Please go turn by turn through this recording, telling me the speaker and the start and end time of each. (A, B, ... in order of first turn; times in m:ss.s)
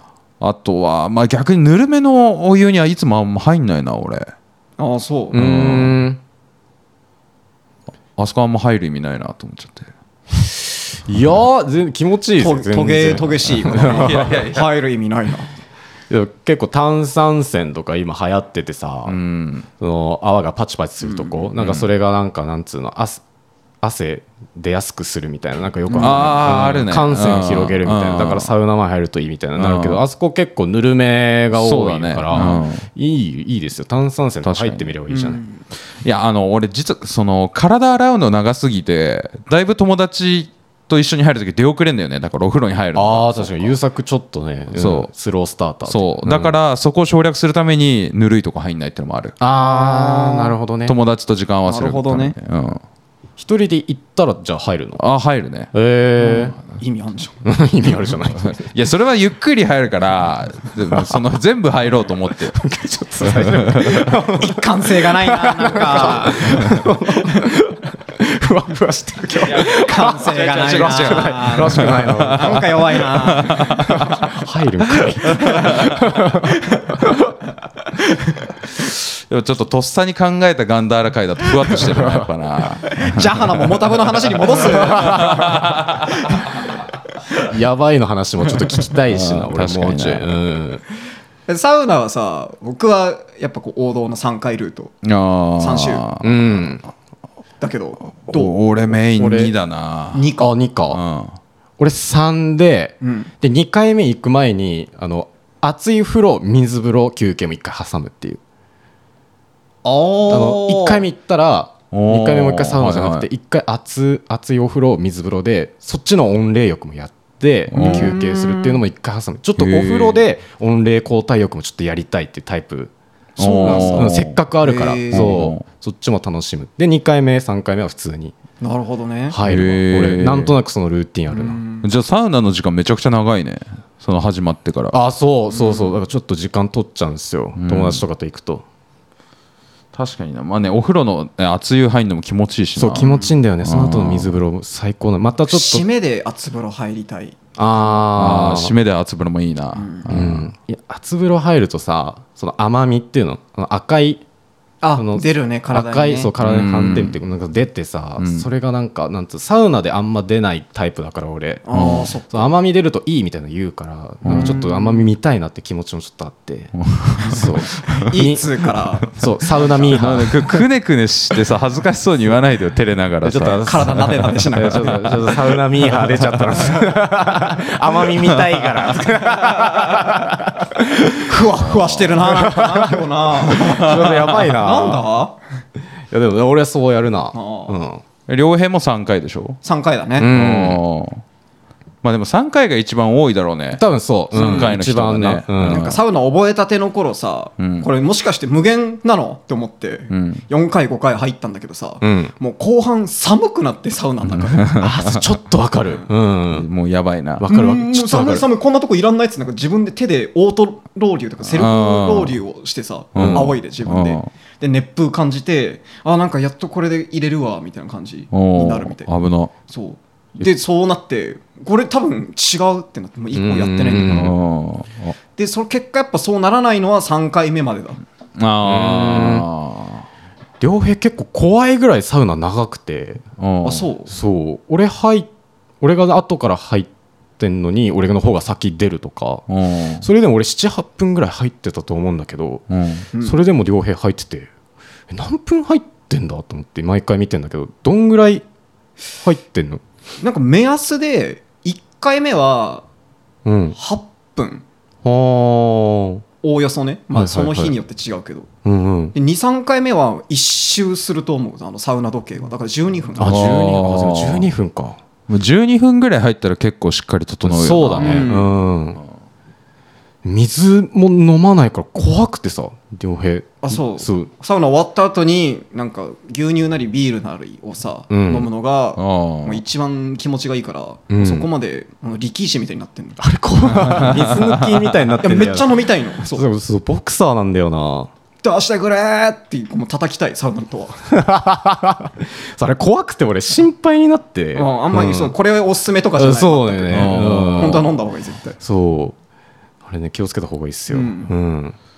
0:00.4-0:04.3 A
0:04.8-0:05.4 B
0:05.3-0:06.2 C
0:05.3-0:06.0 A
0:08.2-0:09.9 A
0:10.4-0:14.3 C
0:12.4-0:15.5 B
0:13.7-0:14.7 A
0:16.1-0:19.2 C
0:19.0-0:19.7 A
0:19.8-0:23.2 C
0:21.0-0:21.5 B
0:21.6-0:21.9 A
0:23.8-0:35.4 C
0:25.9-0:26.3 B
0:26.0-0:28.5 A
0:29.6-0:30.0 A
0:31.5-0:32.8 A
0:32.3-0:32.6 B
0:34.4-0:34.9 A
0:35.1-0:35.6 B
0:36.0-0:43.7 A
0:42.9-0:46.5 C
0:44.7-0:45.1 A
0:45.8-0:49.4 A
0:49.4-0:51.0 C
0:49.6-0:50.6 B
0:50.8-0:52.8 A
0:51.6-0:52.4 B
0:53.4-0:55.0 C
0:55.0-0:55.7 A
0:55.7-0:56.6 C
0:56.2-0:57.4 B
0:57.4-0:58.7 C
0:58.4-1:02.6 A
1:00.9-1:01.2 C
1:02.5-1:17.3 C
1:03.2-1:04.2 A
1:04.4-1:07.5 B
1:09.4-1:14.3 A
1:09.5-1:14.1 B
1:15.0-1:16.0 A
1:15.4-1:15.8 B
1:16.4-1:17.0 B
1:18.8-1:23.7 A
1:21.8-1:22.2 C
1:22.9-1:26.5 B
1:24.7-1:25.5 C
1:24.9-1:26.1 A
1:27.4-1:30.8 C
1:29.1-1:30.2 A
1:31.5-1:35.0 B
1:35.0-1:36.4 A
1:35.6-1:36.0 B
1:36.2-1:36.8 C
1:37.6-1:38.6 B
1:38.3-1:40.3 A
1:39.1-1:39.5 C
1:40.1-1:40.5 B
1:40.4-1:41.0 C
1:40.9-1:41.4 A
1:41.8-1:48.4 C
1:43.0-1:43.3 B
1:49.8-1:51.0 B
1:50.3-2:02.9 C
1:51.9-1:53.3 A
1:57.7-1:58.2 A
1:57.7-1:58.8 B
1:59.6-2:00.2 A
2:03.4-2:04.4 A
2:03.4-2:05.4 B
2:03.6-2:08.3 C
2:05.1-2:05.6 A
2:08.6-2:09.4 B
2:09.3-2:11.6 C
2:09.4-2:10.5 A
2:11.3-2:11.9 B
2:11.8-2:15.0 A
2:14.9-2:18.6 C
2:15.5-2:16.0 B
2:17.6-2:18.0 A
2:19.9-2:24.4 A
2:22.8-2:25.8 C
2:25.5-2:27.4 B
2:27.6-2:28.7 C
2:28.1-2:30.5 A
2:29.7-2:30.1 B
2:30.1-2:34.2 C
2:34.8-2:36.3 B
2:35.0-2:50.6 C
2:36.4-2:37.2 A
2:38.2-2:38.5 A
2:41.6-2:42.5 B
2:41.7-2:42.1 A
2:44.2-2:44.6 A
2:44.3-2:45.1 B
2:46.8-2:48.0 A
2:47.8-2:50.0 B
2:49.8-2:54.9 A
2:53.2-3:01.3 C
2:53.6-2:55.4 B
2:58.2-2:58.9 A
3:01.1-3:05.4 B
3:01.6-3:02.2 A
3:02.2-3:05.0 C
3:03.5-3:04.3 A
3:06.1-3:08.0 C
3:07.3-3:07.8 B
3:08.3-3:09.6 A
3:09.6-3:10.3 B
3:10.2-3:10.8 C
3:10.2-3:11.2 A
3:12.0-3:16.0 A
3:13.7-3:15.9 C
3:14.4-3:14.7 B
3:15.6-3:24.8 B
3:17.6-3:17.9 A
3:20.1-3:20.4 A
3:22.0-3:22.3 C
3:24.2-3:25.4 A
3:24.8-3:26.7 C
3:26.5-3:27.4 A
3:27.4-3:28.4 C
3:27.5-3:39.1 B
3:31.4-3:32.4 A
3:33.1-3:34.3 A
3:33.2-3:33.5 C
3:38.3-3:39.5 A
3:39.7-3:44.4 B
3:43.3-3:44.3 C
3:44.1-3:45.2 A
3:45.3-3:48.0 B
3:48.4-3:50.0 A
3:48.6-3:49.5 C
3:50.6-3:53.2 C
3:53.4-3:53.9 A
3:53.6-3:54.1 B
3:54.1-3:55.3 C
3:55.8-3:59.4 C
3:59.5-4:00.0 A
4:00.0-4:02.6 C
4:02.7-4:03.1 A
4:03.1-4:03.4 B
4:03.2-4:04.5 C
4:05.1-4:08.4 C
4:09.2-4:09.8 C
4:10.2-4:12.8 B
4:13.4-4:13.8 C
4:13.8-4:14.6 B
4:15.0-4:16.2 C
4:16.4-4:18.5 B
4:17.1-4:17.7 C
4:18.6-4:19.1 C
4:19.1-4:23.5 B
4:23.2-4:25.0 C
4:23.2-4:24.5 A
4:25.3-4:28.4 A
4:27.4-4:29.0 C
4:28.0-4:28.5 B
4:30.2-4:34.3 C
4:33.6-4:43.2 B
4:38.1-4:38.5 C
4:39.0-4:39.6 A
4:41.1-4:41.5 C
4:43.2-4:48.1 C
4:43.8-4:44.9 A
4:45.2-4:46.4 B
4:48.4-4:51.0 B
4:51.1-4:55.3 C
4:54.6-4:58.6 B
4:56.2-4:57.9 C
4:56.9-4:57.9 A
4:58.6-4:59.2 C
4:59.8-5:01.8 C
5:00.9-5:01.3 B